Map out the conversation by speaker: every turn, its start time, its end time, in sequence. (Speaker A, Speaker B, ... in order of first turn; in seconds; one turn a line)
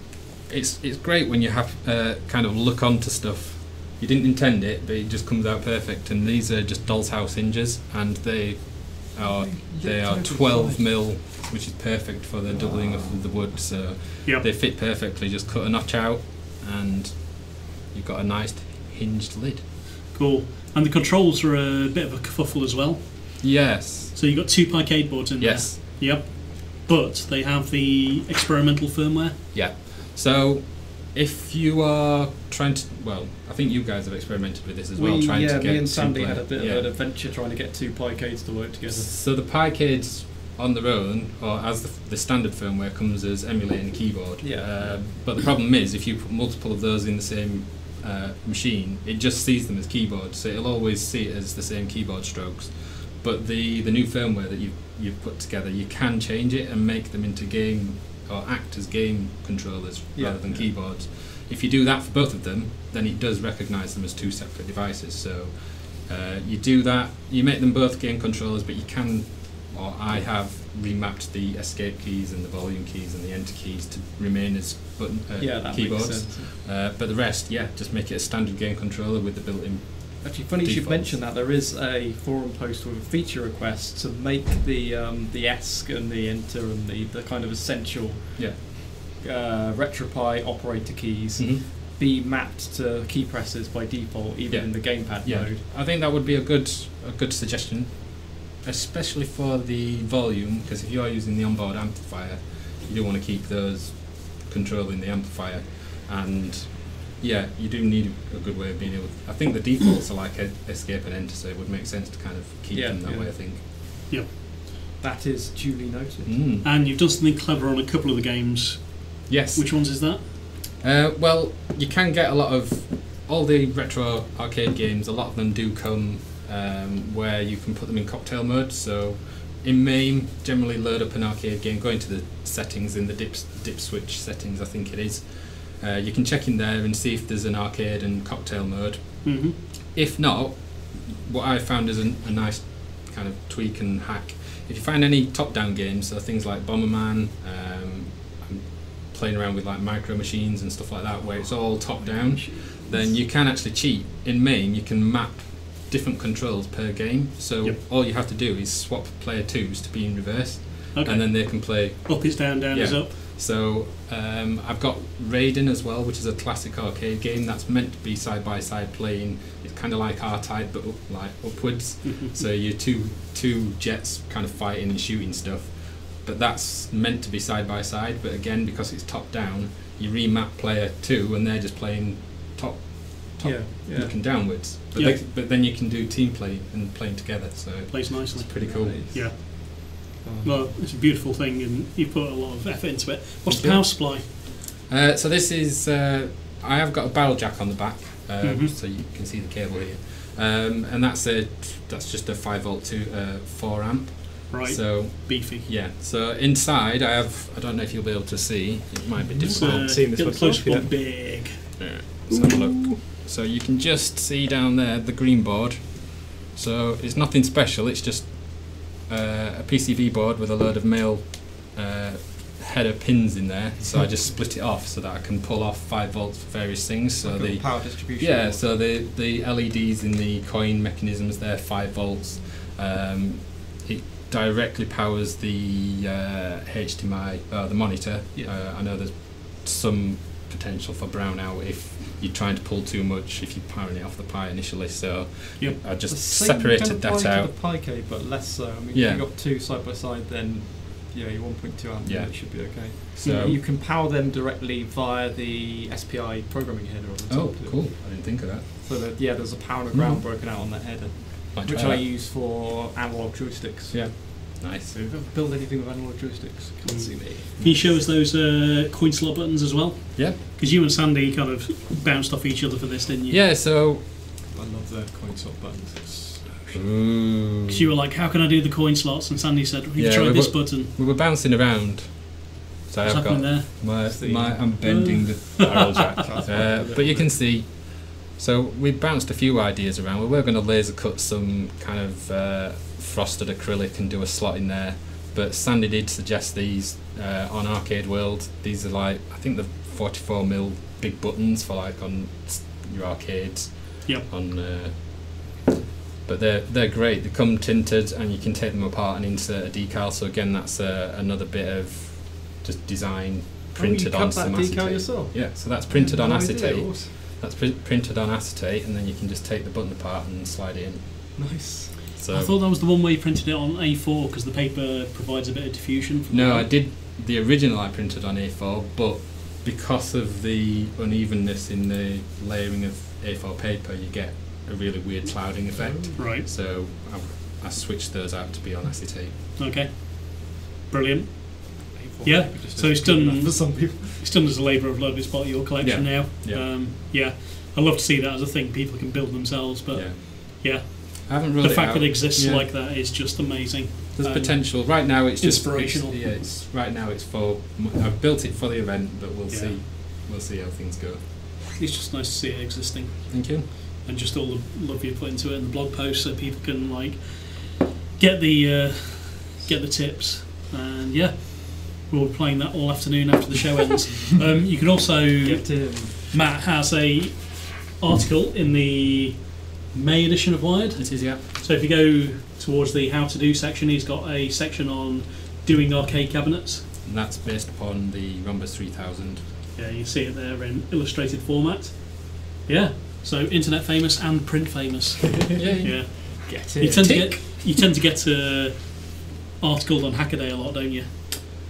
Speaker A: 0.5-19.6
Speaker B: 9.2-11.1
Speaker C: 20.1-23.6
Speaker A: 23.4-24.1
Speaker C: 24.1-29.4
Speaker A: 25.4-26.0
Speaker A: 29.5-36.9
Speaker B: 34.9-39.1
Speaker A: 38.9-81.2
Speaker B: 44.4-45.1
Speaker B: 60.1-60.7
Speaker B: 75.4-76.5
Speaker B: 80.2-95.6
Speaker A: 88.4-88.6
Speaker A: 91.4-91.6
Speaker A: 94.5-113.6
Speaker B: 112.7-113.7
Speaker B: 115.0-116.4
Speaker A: 116.2-116.7
Speaker C: 116.6-120.2
Speaker A: 119.3-189.1
Speaker C: 139.2-139.6
Speaker B: 152.0-153.2
Speaker C: 160.9-163.1
Speaker C: 172.0-172.4
Speaker B: 183.4-184.2
Speaker C: 184.9-185.2
Speaker C: 187.9-194.3
Speaker B: 188.6-189.6
Speaker B: 190.2-190.7
Speaker A: 193.4-210.3
Speaker C: 198.4-198.7
Speaker C: 204.5-205.7
Speaker B: 209.2-210.9
Speaker C: 209.4-211.8
Speaker A: 211.8-247.5
Speaker B: 212.3-213.0
Speaker B: 227.2-228.8
Speaker B: 246.0-267.8
Speaker A: 248.9-249.2
Speaker A: 252.0-253.6
Speaker A: 257.3-259.2
Speaker A: 259.9-260.2
Speaker A: 261.5-262.1
Speaker A: 263.9-264.9
Speaker C: 266.8-273.4
Speaker A: 267.6-267.9
Speaker A: 273.3-274.1
Speaker B: 274.5-276.8
Speaker A: 276.7-277.9
Speaker C: 277.7-280.9
Speaker A: 280.0-305.6
Speaker C: 283.0-283.9
Speaker B: 284.0-284.8
Speaker C: 284.8-286.1
Speaker B: 285.7-287.4
Speaker A: 306.2-321.5
Speaker B: 313.8-317.1
Speaker B: 321.4-322.0
Speaker A: 322.1-322.6
Speaker C: 322.3-326.7
Speaker A: 326.3-339.3
Speaker B: 335.7-336.2
Speaker C: 336.2-336.5
Speaker C: 339.6-356.3
Speaker B: 341.9-344.2
Speaker A: 345.8-346.7
Speaker A: 349.9-352.7
Speaker A: 354.1-361.2
Speaker C: 359.5-359.8
Speaker C: 361.8-386.9
Speaker A: 363.3-363.6
Speaker B: 375.4-376.1
Speaker A: 381.0-381.4
Speaker A: 387.0-389.4
Speaker C: 389.8-401.1
Speaker A: 395.6-397.4
Speaker B: 396.4-397.4